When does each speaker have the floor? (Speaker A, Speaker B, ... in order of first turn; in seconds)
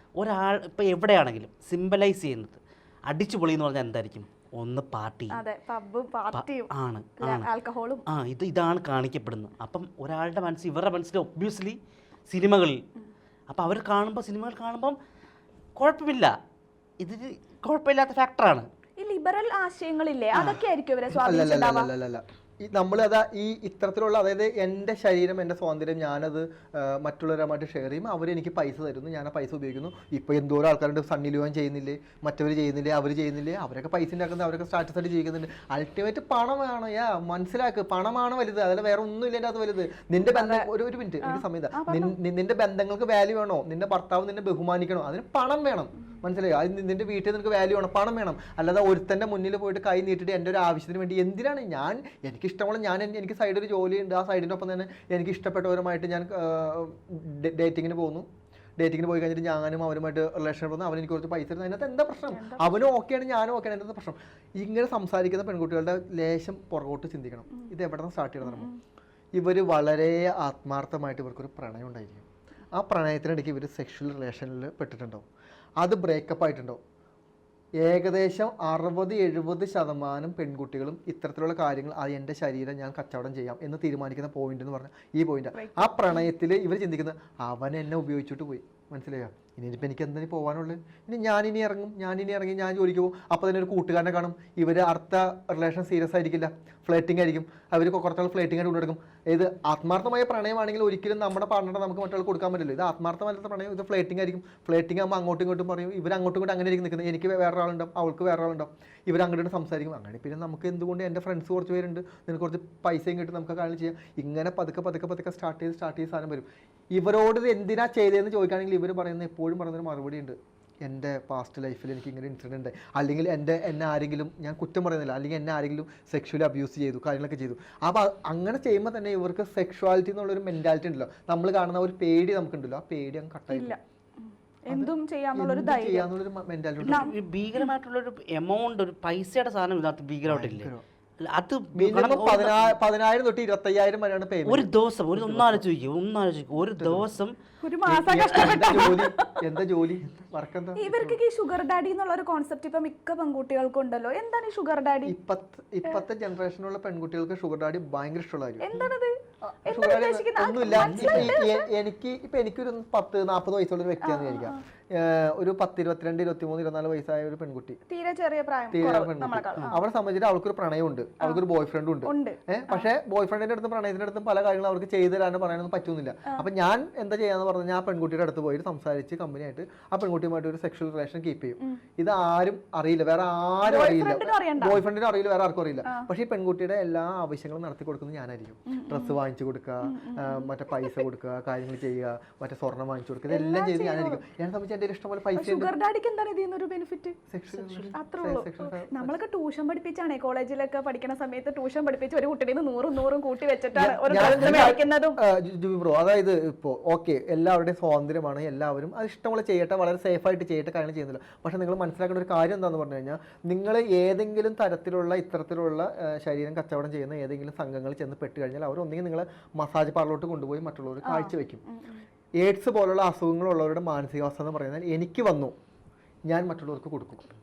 Speaker A: 0.2-5.3, 6.3-7.5, 8.1-11.8, 12.3-12.8, 13.5-14.9, 15.8-16.3, 17.0-18.7, 136.8-140.7, 141.3-142.8, 144.4-147.3, 160.7-161.4, 197.5-197.9, 204.2-204.5
Speaker B: 5.3-8.0, 19.0-21.9, 40.2-40.7, 41.2-42.1, 62.2-62.8, 68.4-68.8, 85.5-86.2, 133.5-136.1, 147.6-149.4, 150.8-155.1, 158.6-159.1, 159.7-161.6, 164.0-164.6, 167.9-169.8, 172.0-172.9, 183.6-184.8, 188.7-189.2, 189.8-191.0, 193.3-194.2, 195.3-197.2, 197.9-205.2, 221.0-222.0
Speaker C: 20.3-58.2, 58.8-68.7, 69.3-75.2, 75.8-76.8, 77.8-133.7, 134.7-137.1, 140.2-140.8, 141.7-145.7, 146.6-147.1, 147.8-151.2, 155.1-158.9, 159.5-167.8, 168.7-195.7, 197.3-199.2, 203.7-221.6, 222.4-225.5, 226.3-227.3